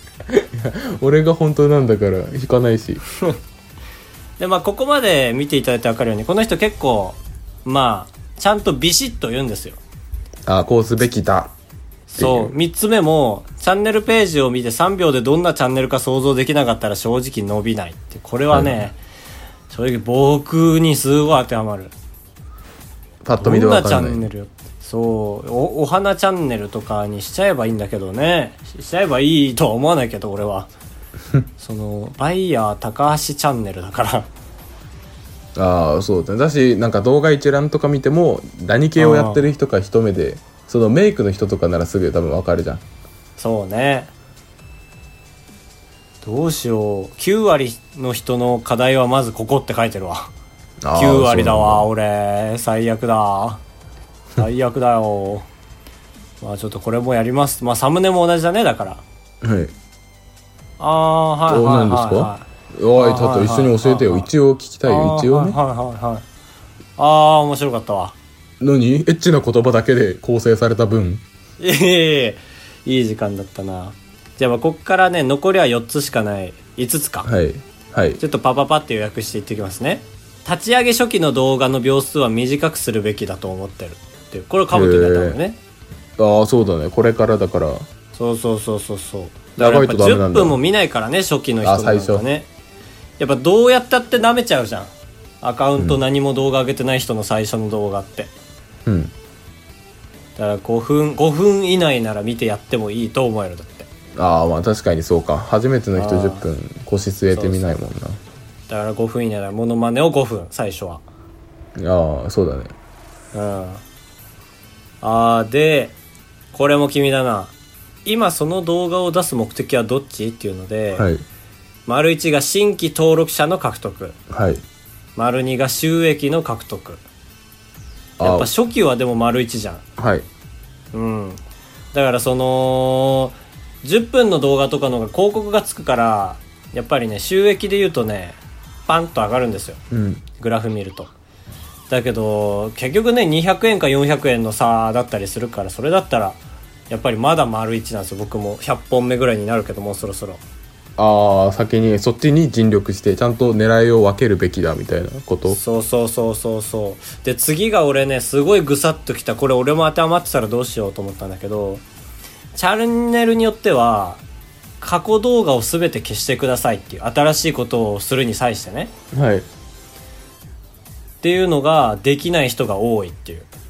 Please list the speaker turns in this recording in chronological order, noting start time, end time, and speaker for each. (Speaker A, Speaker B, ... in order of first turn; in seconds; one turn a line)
Speaker A: 0.3-3.0
Speaker B: 4.4-9.8
Speaker A: 10.5-11.5
Speaker B: 12.1-19.0
Speaker A: 12.2-12.5
Speaker A: 18.5-18.8
Speaker B: 19.7-21.9
Speaker A: 23.2-24.3
Speaker B: 23.4-30.7
Speaker B: 31.6-34.3
Speaker A: 35.6-42.8
Speaker B: 39.0-39.5
Speaker B: 43.4-44.1
Speaker B: 46.2-50.3
Speaker A: 50.8-51.9
Speaker B: 51.0-53.6
Speaker B: 54.4-55.5
Speaker B: 56.4-59.0
Speaker A: 59.4-59.7
Speaker B: 60.8-64.3
Speaker A: 61.5-65.6
Speaker B: 64.8-66.2
Speaker B: 67.0-68.2
Speaker A: 68.6-71.2
Speaker B: 71.6-77.3
Speaker A: 77.2-78.2
Speaker B: 78.2-85.6
Speaker A: 84.7-85.4
Speaker A: 86.2-87.9
Speaker B: 88.1-92.5
Speaker A: 89.6-90.6
Speaker A: 91.6-92.2
Speaker B: 93.2-98.3
Speaker A: 98.9-99.1
Speaker B: 100.4-103.9
Speaker A: 104.2-108.2
Speaker B: 106.0-106.4
Speaker B: 107.3-107.6
Speaker B: 108.7-111.0
Speaker A: 111.8-112.7
Speaker B: 113.3-113.8
Speaker B: 115.0-116.0
Speaker B: 116.5-117.5
Speaker B: 118.0-121.1
Speaker A: 121.0-121.2
Speaker B: 121.9-124.2
Speaker A: 124.3-124.6
Speaker B: 125.2-127.0
Speaker A: 128.2-128.5
Speaker B: 128.2-129.8
Speaker A: 130.0-130.3
Speaker B: 130.9-131.4
Speaker B: 131.9-139.8
Speaker A: 139.9-140.2
Speaker B: 140.4-141.1
Speaker B: 141.9-150.4
Speaker A: 151.0-155.6
Speaker B: 155.5-161.8
Speaker B: 162.5-164.2
Speaker B: 164.8-168.9
Speaker A: 169.1-169.5
Speaker B: 171.2-173.5